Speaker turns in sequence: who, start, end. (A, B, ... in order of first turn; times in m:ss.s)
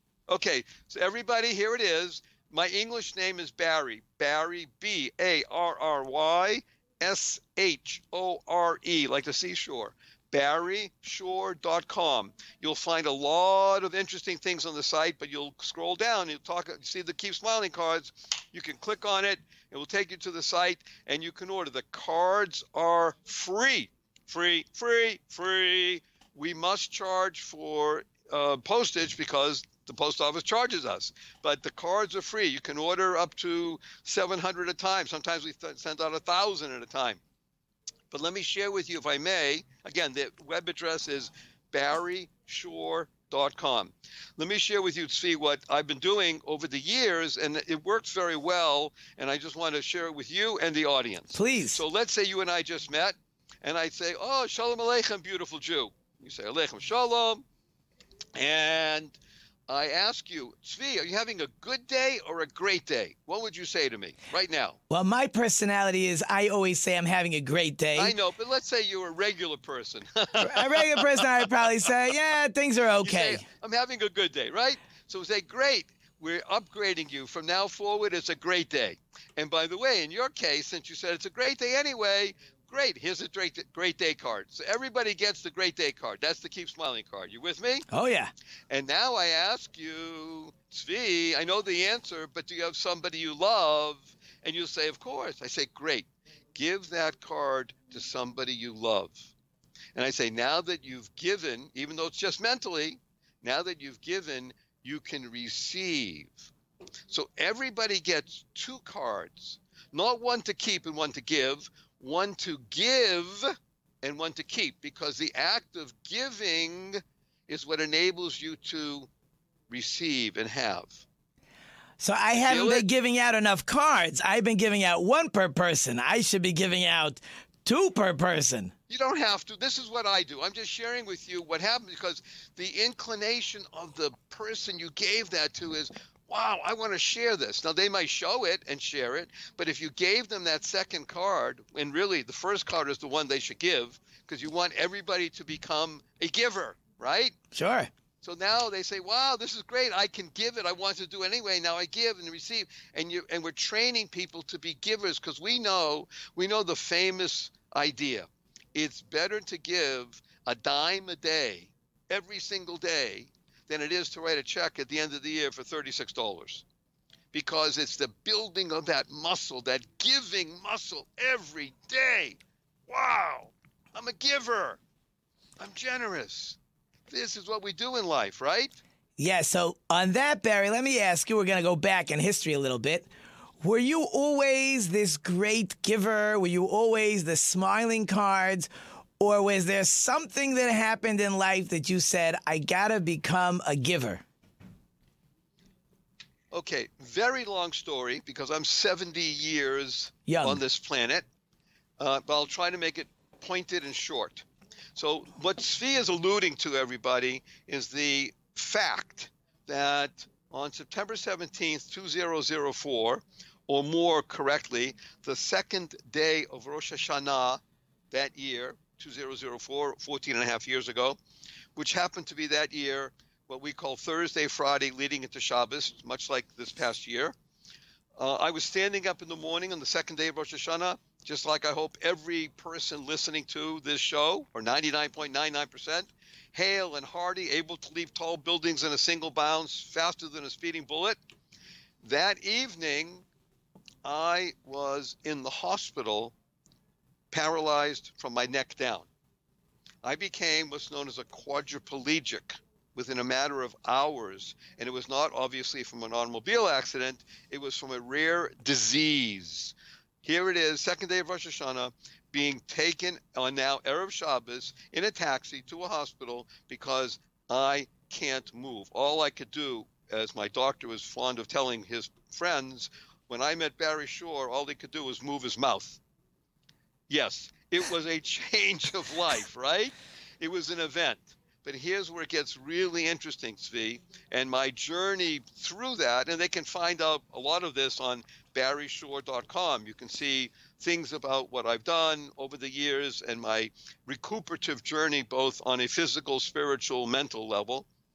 0:00.3-0:37.2 A
0:38.1-0:57.4 A
0:51.3-0:51.8 B
0:58.4-0:59.2 A
0:59.7-1:04.8 A
1:04.9-1:08.1 B
1:08.0-1:11.5 A
1:10.4-1:13.4 B
1:13.0-1:27.8 A
1:27.9-1:28.3 B
1:28.7-1:39.3 A
1:40.0-1:46.5 A
1:47.1-1:59.1 A
1:59.7-2:01.0 A
2:02.0-2:08.7 B
2:02.5-2:02.9 A
2:08.9-2:27.4 A
2:27.5-2:27.9 B
2:28.2-2:46.6 A
2:47.3-2:54.8 A
2:55.6-2:56.6 A
2:57.1-2:58.8 A
2:59.2-3:03.1 B
3:03.6-3:08.7 B
3:09.2-3:14.2 B
3:16.5-3:21.2 A
3:20.3-3:20.6 B
3:22.0-3:24.4 A
3:25.0-3:41.2 A
3:41.8-3:47.3 A
3:48.2-4:01.2 A
4:02.0-4:03.2 A
4:04.0-4:06.3 A
4:07.3-4:09.1 A
4:10.0-4:36.0 A
4:37.1-4:57.8 A